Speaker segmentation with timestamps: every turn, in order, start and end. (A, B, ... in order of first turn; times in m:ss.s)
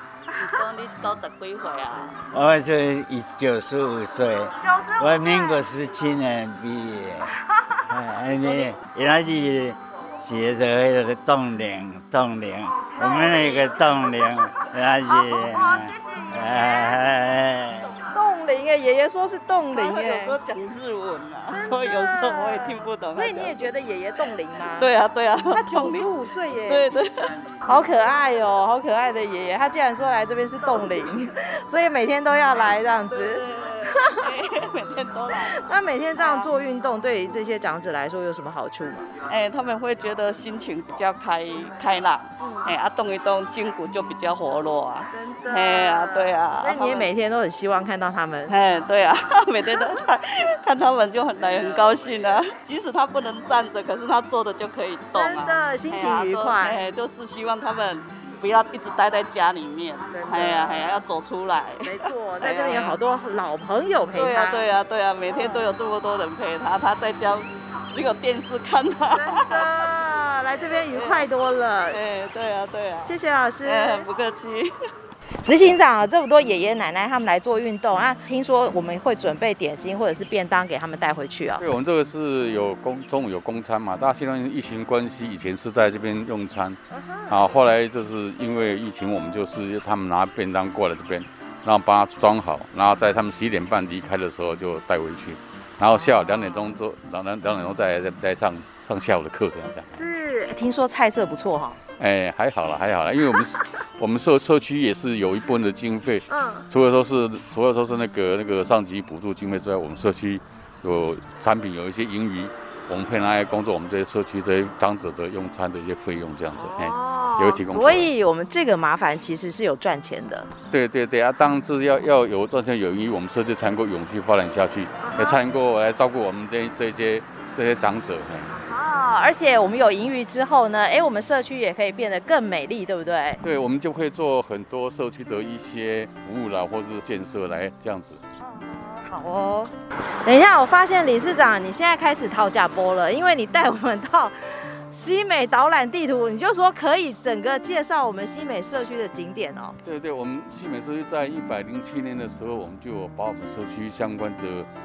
0:00.4-0:02.2 A
0:02.3-0:07.3 B
0:04.6-0:05.7 C
0:07.5-0:07.8 C
0:07.9-0:17.9 B
0:08.3-0:08.7 C
0:12.9-0:13.8 C
0:15.1-0:17.0 C
0:18.1-0:20.4 C
0:19.7-0:23.7 A
0:21.5-0:24.9 C
0:24.7-0:26.1 A
0:25.5-0:26.9 C
0:26.7-0:27.3 A
0:27.6-0:34.3 C
0:33.1-0:35.6 A
0:35.5-0:39.0 C
0:36.2-0:36.5 A
0:39.3-0:47.1 A
0:42.4-0:42.7 C
0:45.1-0:48.5 C
0:48.5-1:03.0 A
0:55.1-0:56.8 C
1:00.1-1:01.0 C
1:01.8-1:04.7 C
1:04.1-1:09.8 A
1:05.3-1:05.7 C
1:09.1-1:12.0 C
1:10.9-1:11.3 A
1:11.9-1:14.7 A
1:13.0-1:14.1 C
1:15.4-1:21.6 C
1:21.6-1:40.0 D
1:26.9-1:27.5 C
1:36.0-1:36.7 C
1:39.8-1:41.8 C
1:42.0-1:58.1 D
1:46.3-1:46.7 C
1:56.6-2:00.5 C
2:00.7-2:08.5 D
2:05.0-2:05.4 C
2:08.5-2:13.4 C
2:13.4-2:18.2 D
2:18.4-2:19.7 C
2:20.2-2:29.8 C
2:29.8-2:34.7 D